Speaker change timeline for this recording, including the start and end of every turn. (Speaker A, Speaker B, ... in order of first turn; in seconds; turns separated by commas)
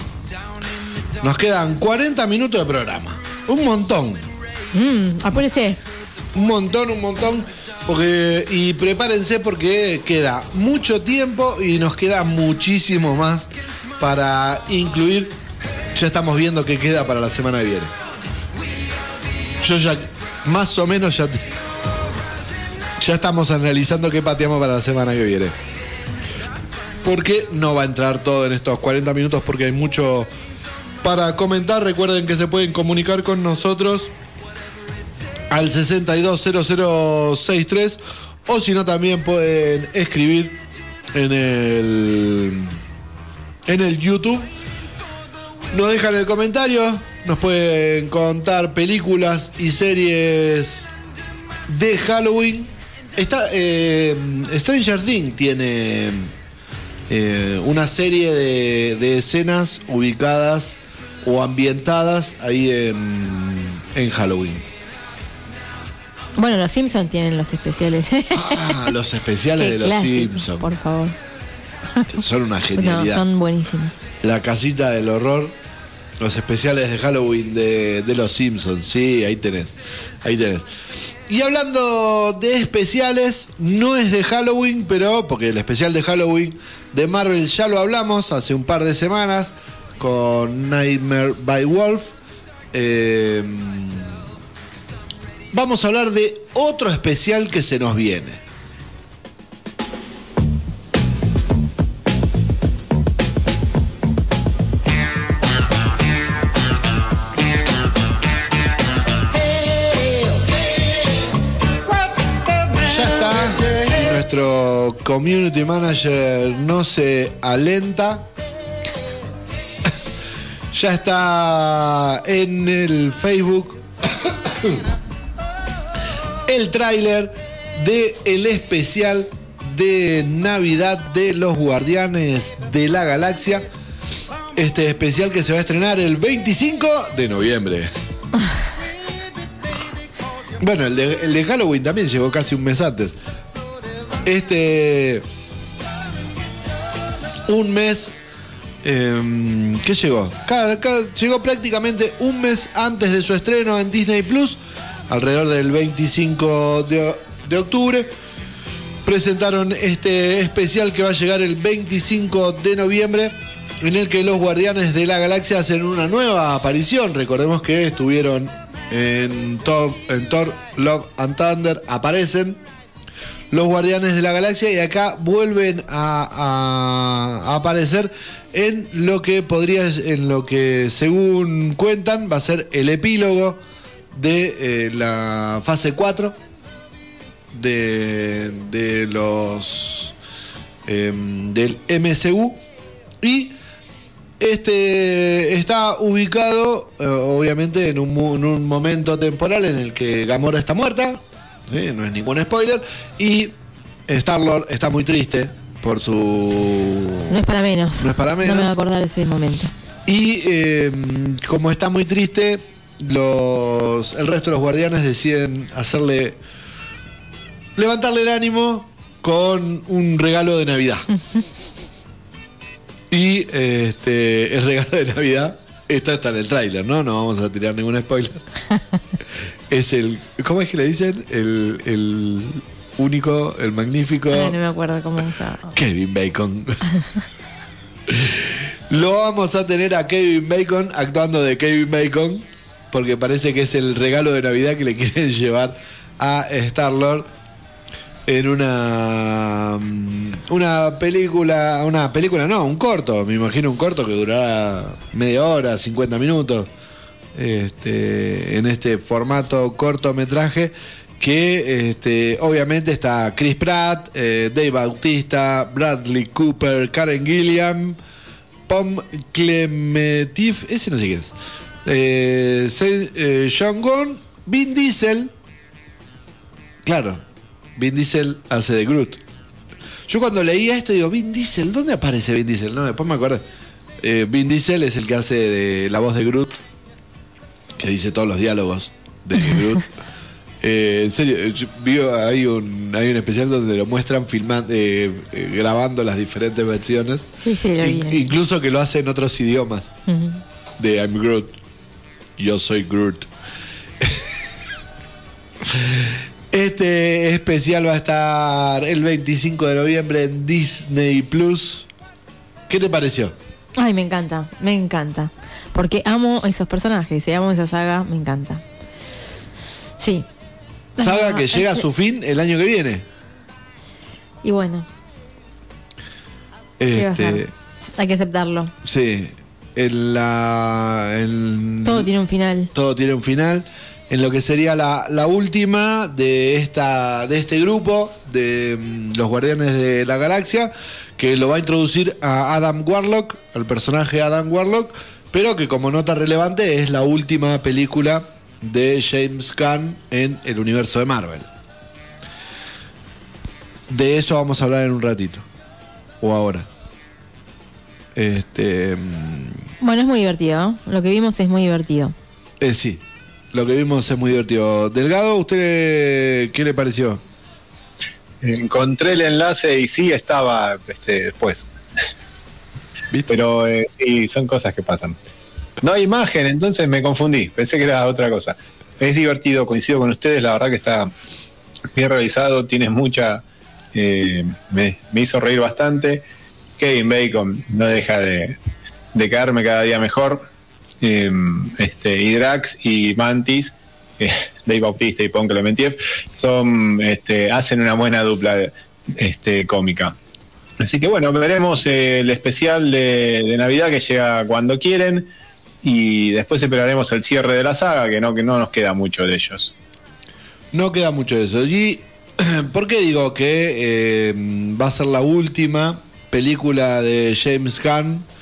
Speaker A: 1.2-4.3, Speaker B: 4.7-5.8, Speaker A: 6.3-15.3, Speaker A: 15.9-17.9, Speaker A: 19.6-21.6, Speaker A: 23.0-25.5, Speaker A: 27.0-30.3, Speaker A: 31.0-34.1, Speaker A: 35.5-40.6, Speaker A: 41.1-42.8, Speaker A: 43.7-44.5, Speaker A: 45.7-50.9, Speaker A: 51.7-56.3, Speaker A: 57.1-64.7, Speaker B: 66.3-68.9, Speaker A: 68.3-70.7, Speaker B: 69.6-71.1, Speaker A: 72.1-73.2, Speaker B: 72.8-73.9, Speaker A: 74.2-75.5, Speaker A: 76.2-80.7, Speaker A: 81.3-92.1, Speaker A: 92.7-94.2, Speaker A: 95.5-98.4, Speaker A: 112.7-118.3, Speaker A: 120.7-124.8, Speaker A: 126.5-133.7, Speaker A: 134.5-137.9, Speaker A: 140.6-143.2, Speaker A: 144.2-145.2, Speaker A: 147.5-148.1, Speaker A: 148.8-158.1, Speaker A: 159.0-172.6, Speaker A: 173.5-183.6, Speaker A: 184.1-186.4, Speaker A: 187.5-190.1, Speaker A: 190.8-192.6, Speaker A: 193.2-193.6, Speaker A: 194.4-203.5, Speaker A: 204.1-207.4, Speaker B: 207.3-209.7, Speaker A: 208.0-208.8, Speaker A: 210.1-216.4, Speaker A: 217.8-221.1, Speaker A: 223.1-228.4, Speaker A: 229.7-234.6, Speaker B: 234.3-235.7, Speaker A: 235.7-236.8, Speaker A: 238.1-247.3, Speaker A: 248.3-256.7, Speaker A: 257.3-268.0, Speaker A: 268.7-271.3, Speaker A: 271.8-275.3, Speaker A: 276.8-277.2, Speaker A: 277.8-279.2, Speaker A: 280.1-283.4, Speaker A: 284.0-286.6, Speaker A: 287.8-289.9, Speaker A: 290.6-299.9, Speaker B: 297.4-298.2, Speaker B: 300.1-300.4, Speaker A: 300.8-301.6, Speaker A: 302.4-303.3, Speaker A: 304.0-304.3, Speaker A: 305.6-311.9, Speaker A: 312.7-313.3, Speaker B: 313.8-318.6, Speaker B: 320.0-320.2, Speaker B: 321.0-321.9, Speaker A: 321.0-323.1, Speaker B: 324.4-324.9, Speaker A: 326.8-327.5, Speaker B: 326.9-328.7, Speaker A: 328.8-332.1, Speaker B: 331.8-332.7, Speaker A: 332.7-351.5, Speaker A: 353.9-355.4, Speaker A: 356.2-356.7, Speaker A: 358.1-359.6, Speaker B: 359.8-362.1, Speaker A: 362.6-367.2, Speaker C: 368.4-371.7, Speaker C: 373.3-375.2, Speaker C: 375.8-381.1, Speaker C: 381.9-383.4, Speaker C: 383.9-386.2, Speaker C: 386.8-388.6, Speaker C: 389.1-390.4, Speaker C: 391.0-400.1, Speaker C: 400.8-405.3, Speaker C: 405.8-409.7, Speaker A: 410.7-418.2